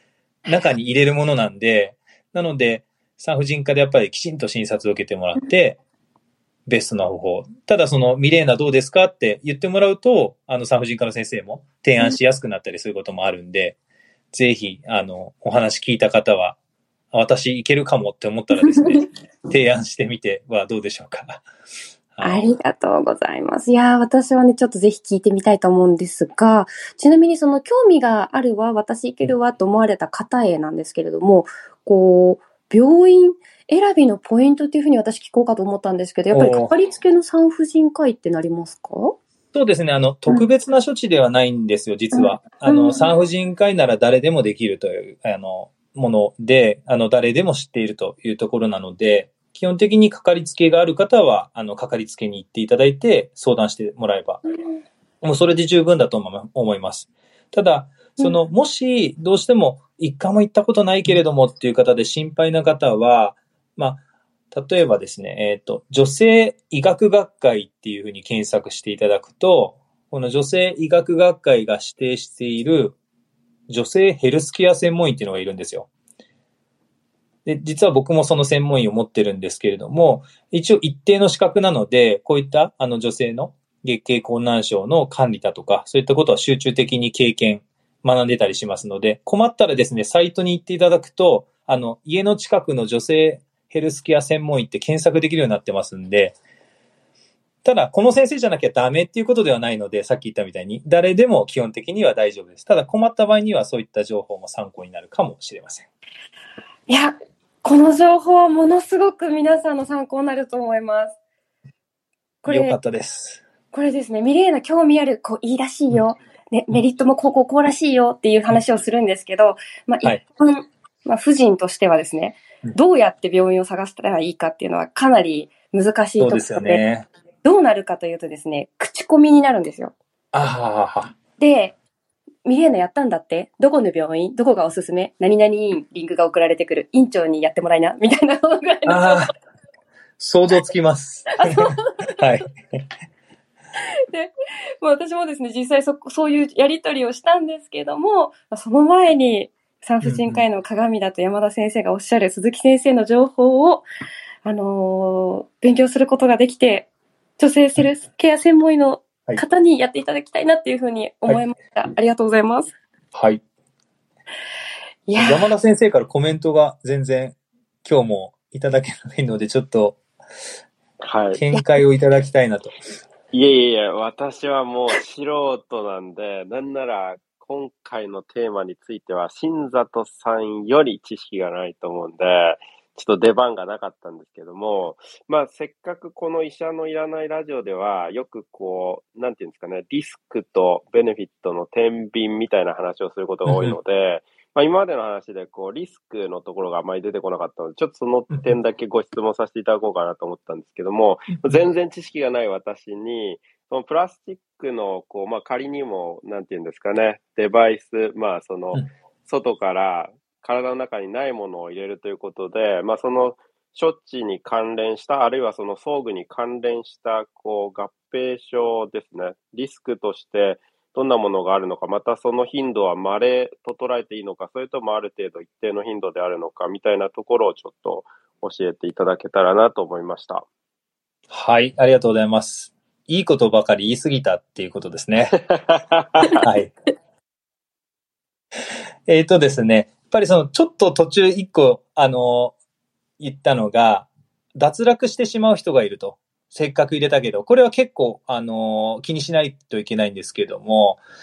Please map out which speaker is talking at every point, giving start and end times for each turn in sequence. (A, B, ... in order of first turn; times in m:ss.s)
0:00.5-0:05.8 A
0:06.7-0:13.8 A
0:14.3-0:16.6 A
0:17.1-0:21.5 A
0:18.6-0:19.0 B
0:22.1-0:22.5 A
0:22.2-0:39.2 B
0:36.3-0:36.7 A
0:39.5-0:54.4 A
0:42.1-0:43.1 B
0:55.2-1:13.0 A
1:13.7-1:15.9 A
1:17.5-1:36.4 A
1:37.6-1:45.9 A
1:46.9-1:51.2 B
1:52.4-1:52.8 B
1:52.4-1:53.4 A
1:53.7-2:06.8 B
2:06.2-2:07.1 A
2:07.4-2:10.0 B
2:10.3-2:11.1 A
2:11.4-2:11.8 B
2:12.4-2:19.3 B
2:18.9-2:19.3 A
2:20.2-2:22.8 A
2:21.4-2:22.1 B
2:24.8-2:33.9 B
2:30.0-2:30.4 A
2:34.4-2:42.8 B
2:43.1-2:43.4 A
2:45.1-2:45.5 B
2:45.2-2:50.0 A
2:51.0-2:51.4 C
2:51.4-2:52.7 A
2:53.3-3:50.5 C
3:13.5-3:13.8 A
3:51.3-3:55.4 A
3:55.3-3:56.3 C
3:56.4-3:56.7 A
3:59.1-4:02.6 A
4:03.2-4:11.0 A